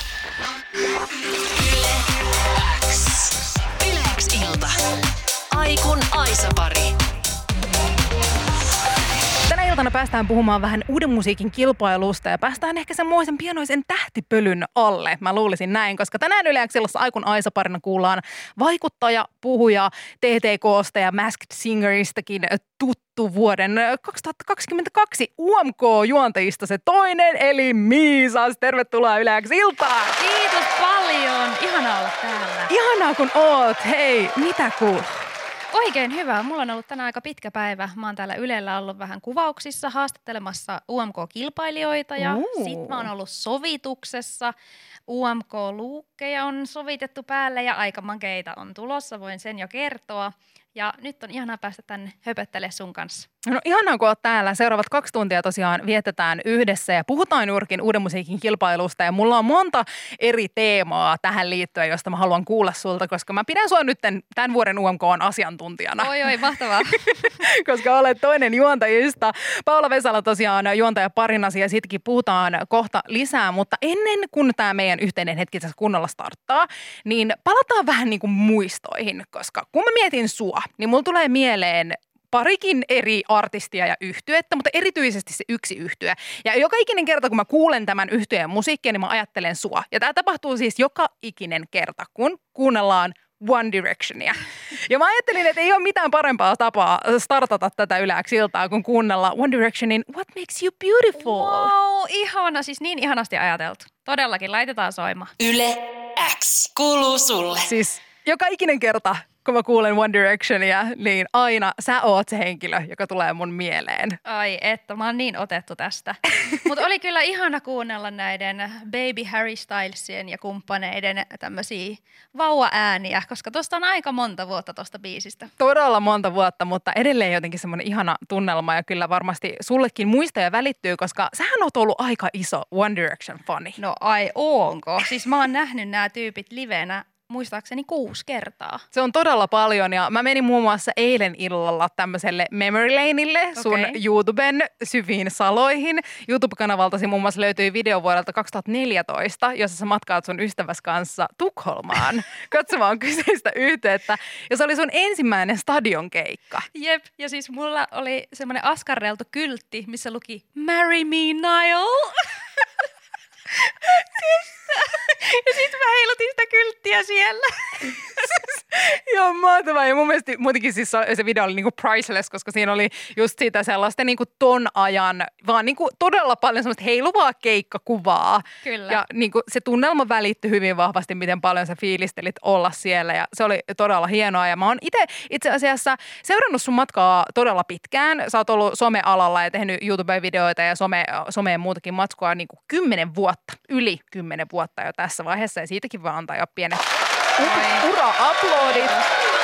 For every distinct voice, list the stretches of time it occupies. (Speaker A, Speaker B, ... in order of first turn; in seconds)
Speaker A: 1.5-4.7, 5.5-6.9, 105.4-107.7
Speaker B: 9.5-30.2, 32.7-35.2, 42.2-43.1, 53.4-66.1, 67.2-101.7, 107.7-114.2, 125.6-133.8, 138.9-156.7, 168.2-196.8, 197.4-198.9
Speaker C: 30.2-32.7, 35.7-44.5, 45.1-53.3, 66.0-67.4, 101.2-105.3, 114.2-125.5, 133.8-138.8, 143.6-144.0, 156.7-162.3, 163.7-168.3, 178.6-179.0, 197.4-197.8, 198.6-199.1